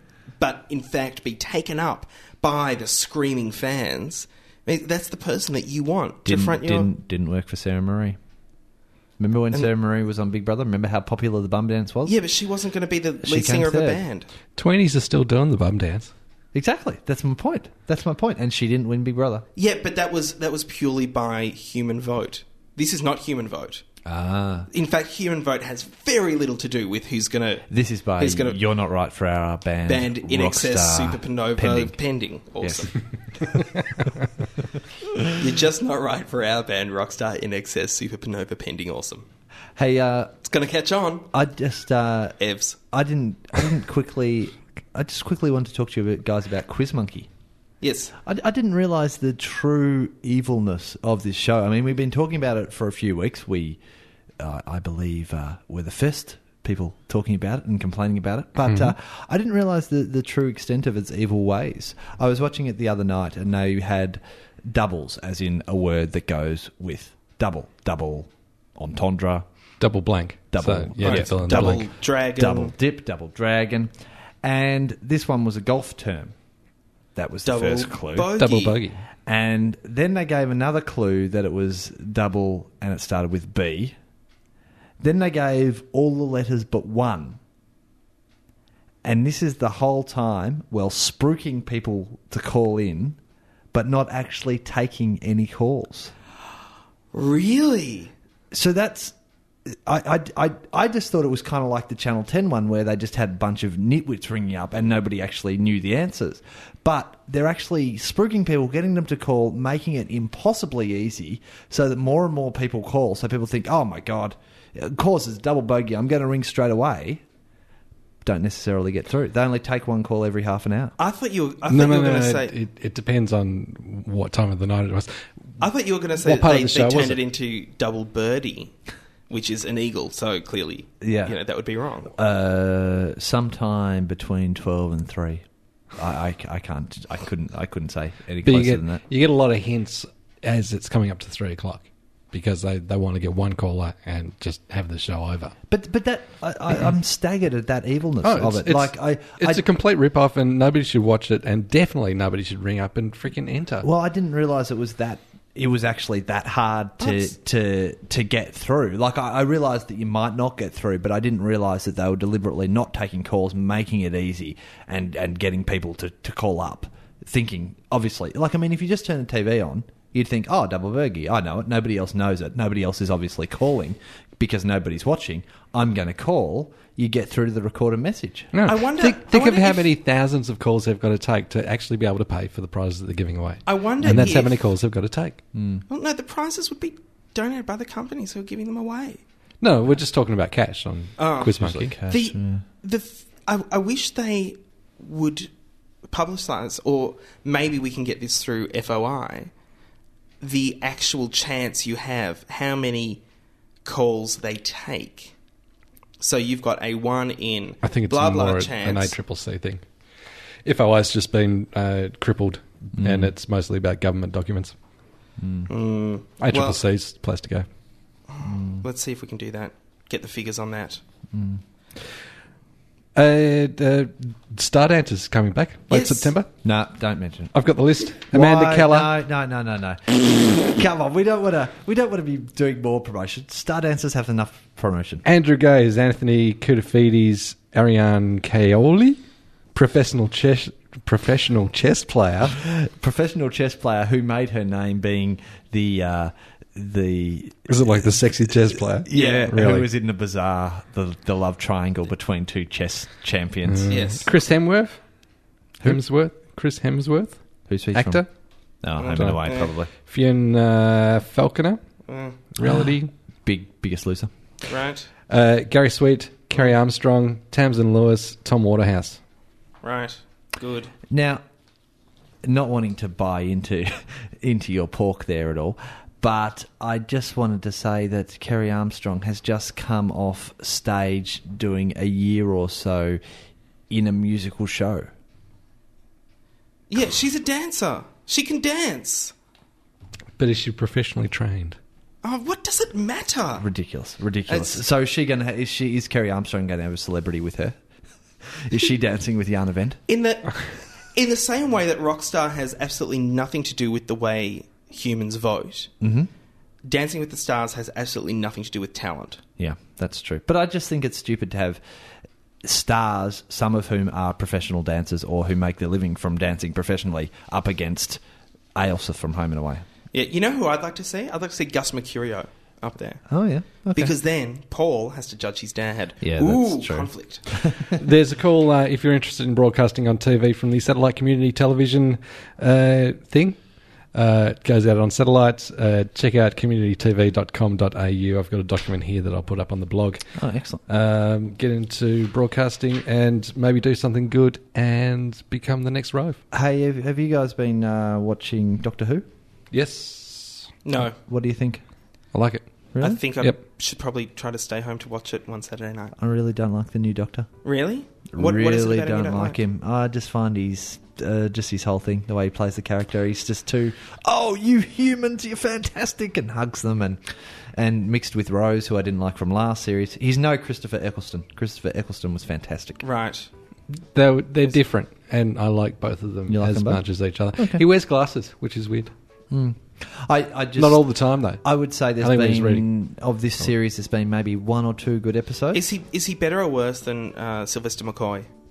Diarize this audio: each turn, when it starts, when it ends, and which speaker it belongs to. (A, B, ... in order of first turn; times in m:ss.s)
0:00.4-0:06.9 A
0:06.2-0:08.2 B
0:09.2-0:12.2 B
0:12.0-0:14.3 A
0:13.2-0:14.0 B
0:14.6-0:16.1 C
0:16.5-0:19.4 B
0:19.6-0:23.8 A
0:24.0-0:24.7 B
0:24.7-0:28.6 A
0:27.7-0:31.9 B
0:29.8-0:32.9 A
0:32.6-0:32.9 B
0:35.2-0:39.2 A
0:39.8-0:40.3 B
0:40.4-0:41.3 A
0:41.3-0:42.4 B
0:42.4-0:42.8 A
0:42.9-0:47.3 B
0:47.8-0:48.2 A
0:48.2-0:53.8 B
0:54.4-1:09.4 B
0:58.7-0:58.9 C
1:09.8-1:11.8 C
1:10.5-1:16.3 B
1:11.0-1:12.7 A
1:17.1-1:18.3 B
1:17.4-1:18.8 A
1:18.4-1:19.0 C
1:19.2-1:24.0 B
1:25.0-1:27.4 B
1:29.0-1:33.2 B
1:33.7-1:36.1 B
1:37.1-1:38.1 A
1:38.5-1:39.1 B
1:39.7-1:57.2 B
1:58.2-2:01.0 B
2:01.0-2:02.5 A
2:01.7-2:05.1 C
2:05.6-2:08.7 A
2:06.2-2:07.2 C
2:09.3-2:12.1 A
2:11.0-2:11.4 B
2:12.2-2:15.4 B
2:15.9-2:19.0 B
2:18.4-2:25.5 C
2:25.7-2:29.6 B
2:28.2-2:33.8 C
2:33.8-2:58.5 B
2:58.5-3:05.4 C
2:58.6-2:59.9 A
3:03.6-3:04.6 A
3:04.1-3:04.4 B
3:05.5-3:05.8 B
3:05.9-3:09.2 A
3:09.6-3:11.9 C
3:11.2-3:11.6 A
3:11.6-3:12.6 B
3:12.1-3:15.5 A
3:16.0-3:19.5 A
3:20.4-3:23.2 A
3:23.8-3:25.3 A
3:26.2-3:29.1 A
3:27.8-3:29.8 C
3:30.6-3:34.7 C
3:32.9-3:33.3 B
3:35.4-3:35.7 B
3:35.7-3:36.8 A
3:36.4-3:37.7 C
3:38.3-3:41.0 A
3:38.4-3:38.8 B
3:41.3-3:41.6 B
3:43.2-3:46.5 C
3:45.9-3:46.3 A
3:46.6-3:47.5 B
3:47.5-3:49.2 C
3:48.2-3:55.2 B
3:55.2-3:59.2 C
3:59.7-4:02.6 C
4:02.6-4:14.0 B
4:07.7-4:09.9 C
4:09.1-4:09.5 A
4:13.6-4:15.0 C
4:13.9-4:14.3 A
4:15.8-4:18.3 C
4:17.7-4:18.2 B
4:18.8-4:19.9 B
4:19.0-4:19.7 A
4:19.1-4:21.8 C
4:22.1-4:22.4 A
4:22.6-4:23.1 C
4:23.4-4:24.3 B
4:24.7-4:25.1 A
4:25.3-4:29.2 C
4:29.8-4:30.9 A
4:31.1-4:31.4 B
4:32.4-4:43.2 B
4:43.9-4:45.1 B
4:46.9-4:49.3 A
4:50.4-4:51.8 C
4:52.2-4:53.7 A
4:53.6-4:57.8 B
4:54.5-4:54.8 A
4:58.5-5:00.0 B
5:00.1-5:05.9 A
5:06.0-5:06.3 B
5:06.8-5:09.4 A
5:09.6-5:11.8 B
5:12.6-5:18.2 B
5:18.7-5:19.8 B
5:20.1-5:23.2 A
5:23.3-5:24.1 B
5:23.8-5:27.5 A
5:26.2-5:27.9 B
5:28.0-5:33.6 C
5:34.1-5:40.2 C
5:40.4-5:40.8 B
5:40.9-5:46.4 C
5:46.5-5:49.2 B
5:49.7-5:50.7 C
5:50.8-5:51.2 A
5:51.2-5:51.8 B
5:52.3-5:52.7 C
5:52.9-5:53.2 B
5:53.0-5:56.1 A
5:56.2-5:57.5 B
5:57.6-5:59.6 A
5:58.3-6:07.2 B
6:07.8-6:13.0 B
6:13.0-6:13.5 A
6:14.0-6:19.1 C
6:16.5-6:17.0 B
6:17.6-6:17.8 B
6:19.5-6:21.1 B
6:20.8-6:21.6 C
6:21.6-6:25.8 B
6:22.2-6:22.9 C
6:25.7-6:28.5 A